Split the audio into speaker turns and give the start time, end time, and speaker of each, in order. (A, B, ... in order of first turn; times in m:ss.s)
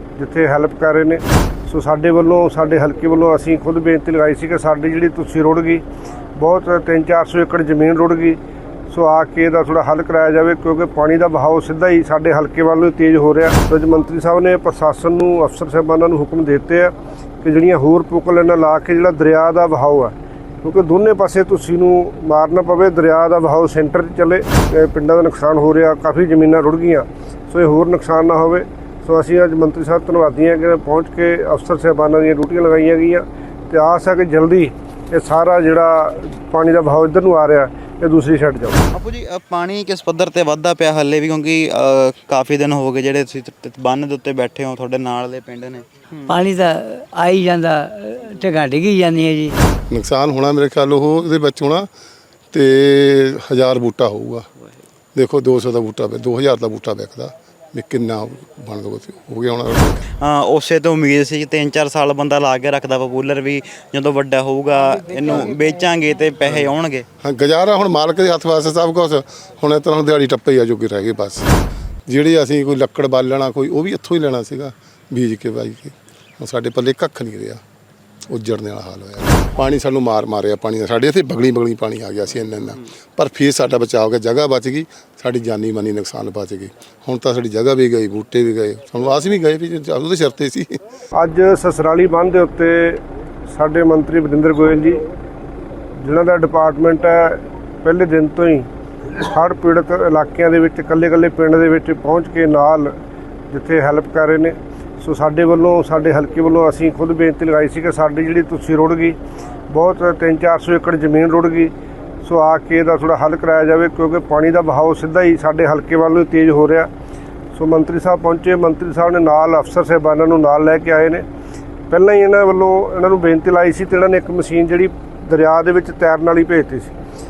0:00.2-0:05.8 A
0:06.4-0:08.4 A
0:08.9-0:38.8 A
0:38.9-0:46.4 B
0:46.3-0:49.6 C
0:49.9-0:51.9 D
0:52.5-0:54.5 D
0:55.2-1:00.1 D
1:00.2-1:07.1 B
1:07.2-1:11.5 D
1:12.1-1:17.6 D
1:18.3-1:30.8 D
1:31.2-1:35.0 A
1:36.0-1:43.0 A
1:43.5-1:49.2 A
1:49.7-1:51.7 A
1:52.2-1:56.9 A
1:57.5-2:01.3 A
2:01.9-2:07.0 A